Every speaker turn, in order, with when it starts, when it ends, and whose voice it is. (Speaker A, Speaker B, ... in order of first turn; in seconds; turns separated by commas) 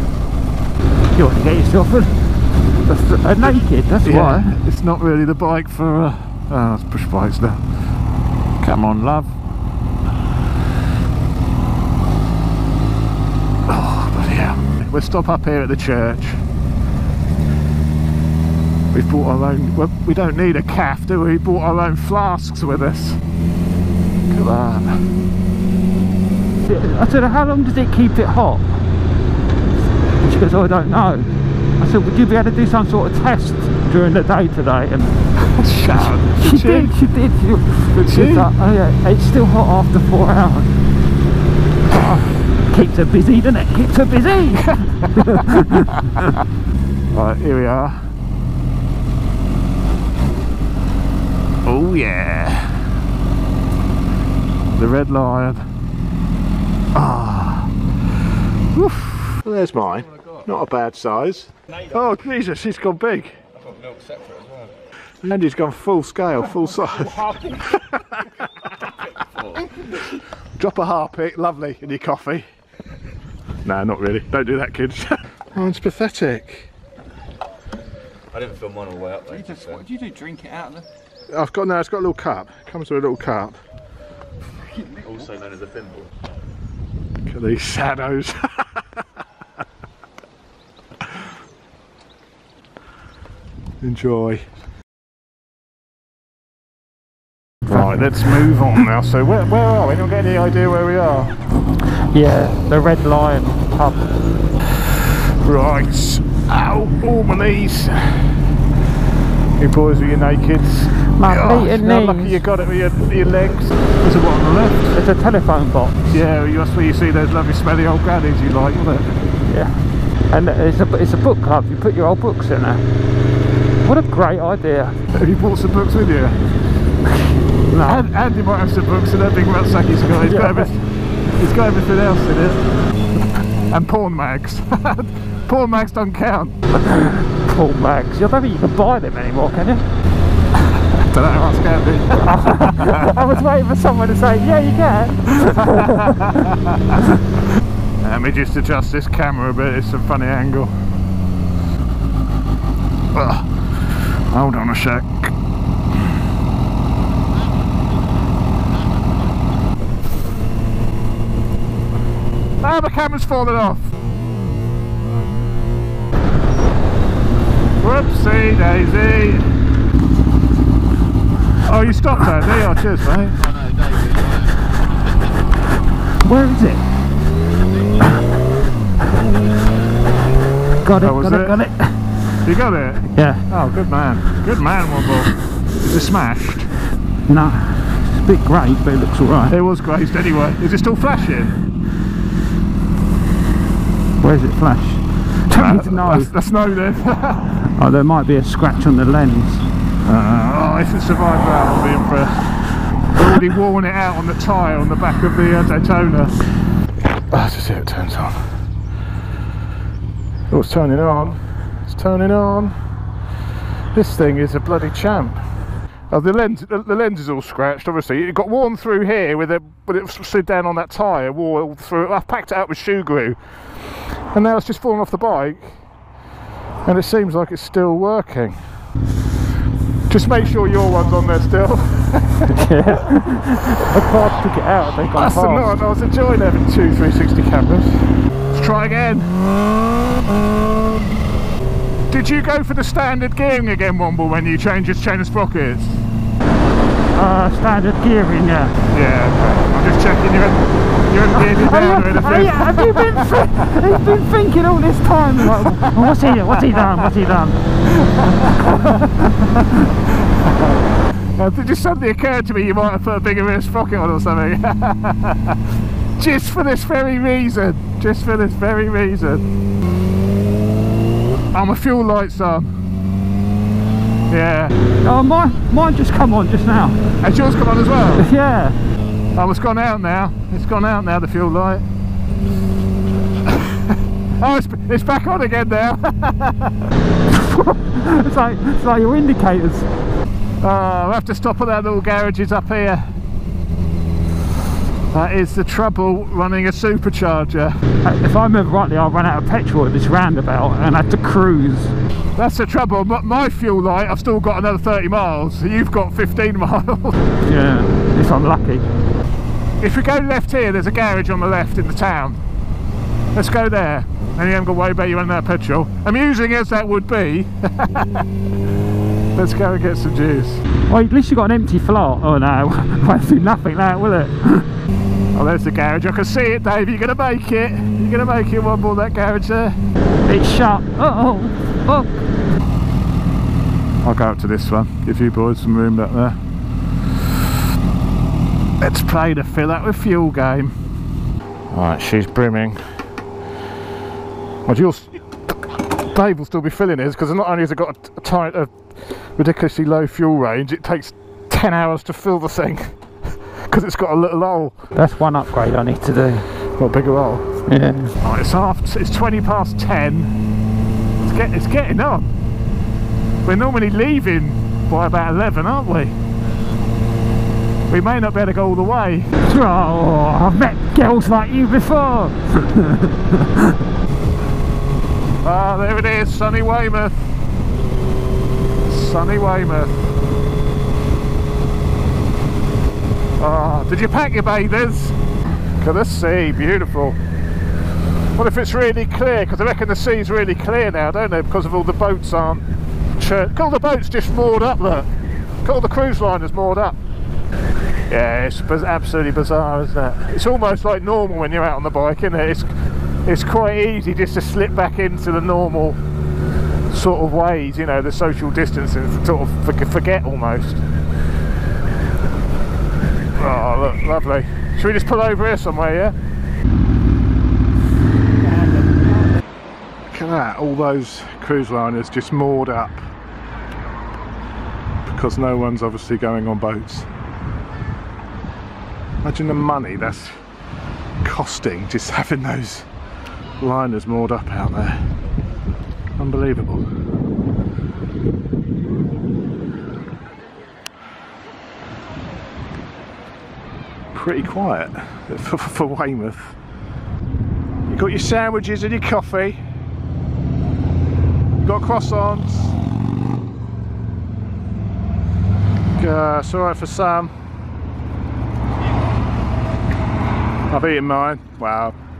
Speaker A: 1.1-2.1, Speaker A: 2.8-4.6, Speaker B: 3.4-7.6, Speaker B: 8.6-9.3, Speaker B: 13.7-16.4, Speaker B: 18.9-23.2, Speaker B: 24.3-25.1, Speaker A: 26.6-28.8, Speaker A: 30.2-35.1, Speaker B: 35.6-36.9, Speaker A: 35.9-40.7, Speaker B: 37.9-38.5, Speaker A: 41.9-46.2, Speaker B: 45.0-45.5, Speaker B: 47.1-48.1, Speaker B: 51.6-52.9, Speaker B: 54.8-55.6, Speaker B: 57.0-57.7, Speaker B: 58.8-63.4, Speaker C: 63.7-64.7, Speaker B: 65.2-68.2, Speaker B: 70.6-72.5, Speaker B: 73.6-76.7, Speaker C: 78.3-79.9, Speaker A: 80.0-80.6, Speaker B: 81.3-83.6, Speaker C: 85.1-86.0, Speaker B: 87.3-88.6, Speaker B: 93.8-94.5, Speaker A: 97.7-98.4, Speaker B: 97.7-101.4, Speaker A: 101.8-104.1, Speaker B: 105.4-108.4, Speaker B: 109.6-115.0, Speaker A: 111.2-112.4, Speaker A: 114.9-116.1, Speaker B: 116.1-119.2, Speaker A: 119.5-119.8, Speaker A: 120.3-122.8, Speaker A: 123.8-125.0, Speaker B: 125.1-126.4, Speaker A: 127.7-128.1, Speaker B: 127.8-130.8, Speaker A: 130.1-130.7, Speaker B: 131.4-132.6, Speaker B: 133.7-136.6, Speaker A: 136.8-139.8, Speaker B: 140.8-143.1, Speaker A: 142.2-146.4, Speaker B: 145.8-146.5, Speaker B: 148.0-150.7, Speaker B: 153.1-153.5, Speaker B: 154.3-155.3, Speaker B: 162.6-163.9, Speaker B: 167.8-169.5, Speaker B: 171.6-173.5, Speaker A: 176.2-176.9, Speaker A: 180.8-182.0, Speaker B: 181.0-181.6, Speaker B: 182.4-186.7, Speaker A: 183.1-183.5, Speaker A: 187.3-189.6, Speaker B: 189.5-191.5, Speaker A: 194.2-196.3, Speaker B: 195.5-197.5, Speaker A: 197.6-199.6, Speaker B: 200.1-202.5, Speaker B: 203.1-206.3, Speaker B: 207.3-208.4, Speaker B: 210.5-212.7, Speaker B: 213.9-215.4, Speaker B: 216.1-225.8, Speaker B: 226.8-228.6, Speaker B: 230.1-232.5, Speaker A: 232.5-235.8, Speaker B: 235.2-239.3, Speaker B: 242.1-246.0, Speaker A: 247.1-248.8, Speaker B: 248.9-254.2, Speaker A: 251.4-257.6, Speaker B: 255.5-256.3, Speaker B: 258.0-258.7, Speaker A: 258.9-259.6, Speaker B: 260.3-260.8, Speaker B: 261.4-265.6, Speaker B: 266.2-269.4, Speaker B: 271.5-272.7, Speaker B: 274.3-274.8, Speaker A: 275.0-277.0, Speaker B: 277.2-278.3, Speaker A: 278.1-278.8, Speaker B: 279.4-281.8, Speaker B: 284.4-286.9, Speaker A: 287.3-289.9, Speaker B: 290.6-293.1, Speaker B: 295.1-297.8, Speaker A: 298.1-301.9, Speaker B: 302.4-307.1, Speaker A: 307.4-308.9, Speaker B: 309.8-312.4, Speaker B: 313.3-318.2, Speaker B: 319.4-320.6, Speaker A: 320.9-324.7, Speaker B: 325.3-329.8, Speaker A: 330.3-332.3, Speaker B: 334.0-336.4, Speaker B: 338.8-340.7, Speaker B: 341.7-342.8, Speaker B: 344.7-345.1, Speaker B: 346.0-354.8, Speaker A: 354.9-356.5, Speaker B: 356.8-357.4, Speaker A: 357.7-358.1, Speaker B: 358.2-360.3, Speaker B: 361.2-362.3, Speaker B: 363.4-366.1, Speaker B: 367.9-369.4, Speaker A: 369.4-373.8, Speaker B: 375.4-377.3, Speaker B: 378.9-380.1, Speaker B: 383.4-385.2, Speaker B: 385.8-387.2, Speaker B: 388.4-392.6, Speaker B: 393.2-395.1, Speaker B: 395.6-396.9, Speaker B: 398.1-406.0, Speaker B: 406.9-410.8, Speaker B: 413.4-416.1, Speaker B: 420.1-423.0, Speaker B: 425.1-427.1, Speaker B: 429.2-430.4, Speaker B: 431.2-432.9, Speaker B: 433.6-434.9, Speaker B: 436.2-436.9, Speaker B: 444.1-446.6, Speaker B: 447.9-449.6, Speaker B: 451.6-452.8, Speaker B: 456.0-457.3, Speaker B: 460.7-461.9